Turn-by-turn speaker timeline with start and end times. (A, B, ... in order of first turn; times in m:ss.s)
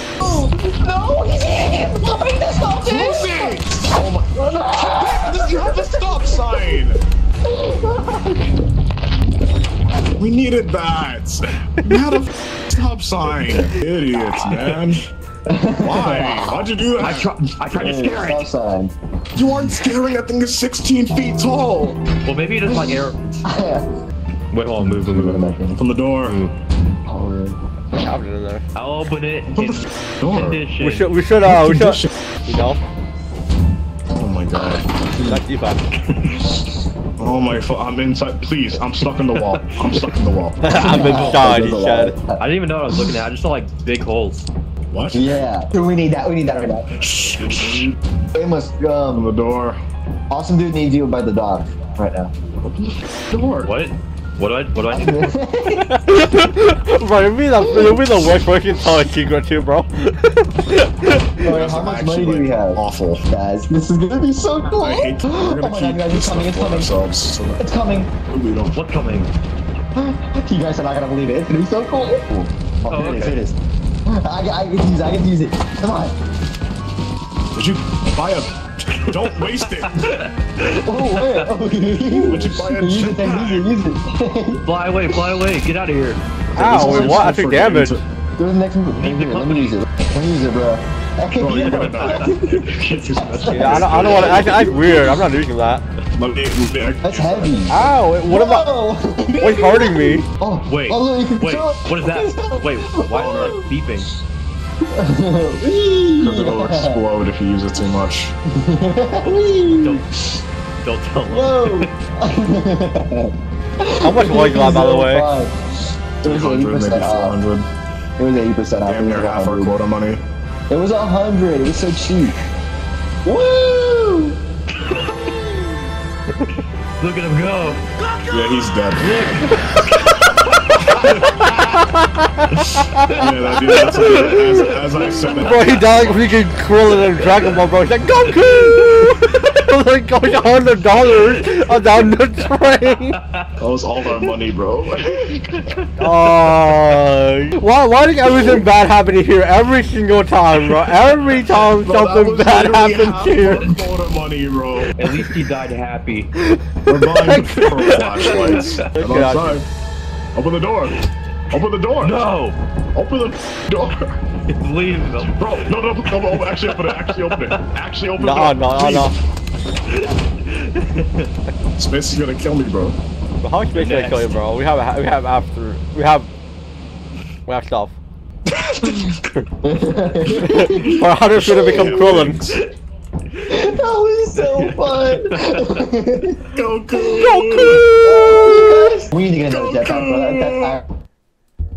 0:00.2-0:03.6 A
0:02.8-0:07.0 B
0:04.3-0:06.8 A
0:07.4-0:08.6 A
0:10.2-0:15.0 B
0:15.5-0:16.6 A
0:15.8-0:17.3 B
0:17.0-0:18.5 C
0:17.7-0:18.9 A
0:19.3-0:22.0 B
0:22.2-0:23.4 C
0:22.6-0:23.9 A
0:24.5-0:25.3 C
0:24.8-0:26.4 B
0:25.1-0:25.8 A
0:26.2-0:26.5 C
0:27.1-0:27.6 A
0:27.9-0:28.6 D
0:28.7-0:31.1 C
0:29.5-0:30.6 B
0:30.8-0:32.8 D
0:31.4-0:32.6 B
0:34.1-0:34.9 B
0:35.1-0:35.4 A
0:35.2-0:35.8 D
0:36.3-0:36.7 A
0:37.2-0:40.6 B
0:39.3-0:40.1 C
0:40.6-0:42.1 D
0:40.7-0:42.4 A
0:40.7-0:41.4 C
0:42.4-0:44.5 C
0:44.9-0:45.4 B
0:45.1-0:46.9 A
0:46.5-0:48.0 B
0:48.3-0:49.3 A
0:49.1-0:49.8 B
0:50.3-0:52.3 A
0:52.6-0:53.7 B
0:53.6-0:55.3 C
0:54.9-0:55.9 A
0:55.7-1:01.3 D
0:57.6-0:58.1 A
1:01.4-1:06.9 A
1:01.4-1:03.2 B
1:04.8-1:07.6 B
1:07.6-1:08.1 A
1:08.3-1:09.3 B
1:08.7-1:09.3 C
1:09.9-1:16.1 A
1:12.9-1:13.4 C
1:17.5-1:20.0 B
1:19.1-1:21.5 C
1:20.8-1:25.2 A
1:22.0-1:23.7 B
1:24.6-1:27.1 C
1:26.6-1:28.0 D
1:26.6-1:28.0 B
1:26.8-1:27.3 A
1:28.4-1:32.6 A
1:28.9-1:29.8 C
1:31.4-1:34.7 B
1:31.5-1:34.5 C
1:33.2-1:35.2 A
1:33.5-1:35.8 D
1:36.1-1:37.7 B
1:37.0-1:43.6 A
1:37.7-1:38.7 D
1:39.4-1:40.2 D
1:40.6-1:44.1 C
1:43.1-1:43.6 B
1:44.9-1:47.0 A
1:46.2-1:48.3 B
1:48.6-1:50.0 A
1:49.2-1:50.1 C
1:50.8-1:51.9 C
1:51.2-1:55.6 A
1:54.0-1:55.3 D
1:56.2-1:57.4 A
1:56.2-1:57.7 B
1:58.2-1:59.7 A
1:58.8-2:00.2 B
2:00.7-2:02.3 A
2:03.2-2:04.4 A
2:04.8-2:05.3 C
2:05.0-2:05.7 A
2:07.0-2:11.6 C
2:08.3-2:09.4 B
2:10.7-2:11.3 B
2:11.4-2:23.2 D
2:13.0-2:14.1 C
2:13.1-2:16.2 B
2:15.0-2:15.8 C
2:17.2-2:17.6 C
2:18.3-2:19.5 C
2:21.0-2:22.1 C
2:22.9-2:23.5 C
2:23.6-2:25.3 B
2:25.0-2:26.8 C
2:26.0-2:33.7 D
2:30.9-2:31.2 C
2:31.3-2:35.1 B
2:33.4-2:33.8 C
2:35.0-2:36.3 C
2:36.4-2:39.6 D
2:36.8-2:39.7 B
2:37.8-2:38.9 C
2:40.3-2:42.2 B
2:42.0-2:42.6 C
2:42.9-2:44.1 B
2:44.5-2:47.6 C
2:45.2-2:49.1 B
2:48.2-2:49.1 D
2:49.9-2:51.3 C
2:51.8-2:53.0 B
2:53.4-2:56.3 D
2:53.7-2:54.4 C
2:57.5-2:58.0 D
2:58.5-2:59.3 B
2:59.6-3:00.8 A
3:00.2-3:02.6 B
3:00.3-3:02.4 D
3:03.5-3:06.4 A
3:03.5-3:05.8 C
3:06.5-3:07.8 B
3:07.0-3:09.0 D
3:08.0-3:10.8 A
3:09.5-3:10.8 B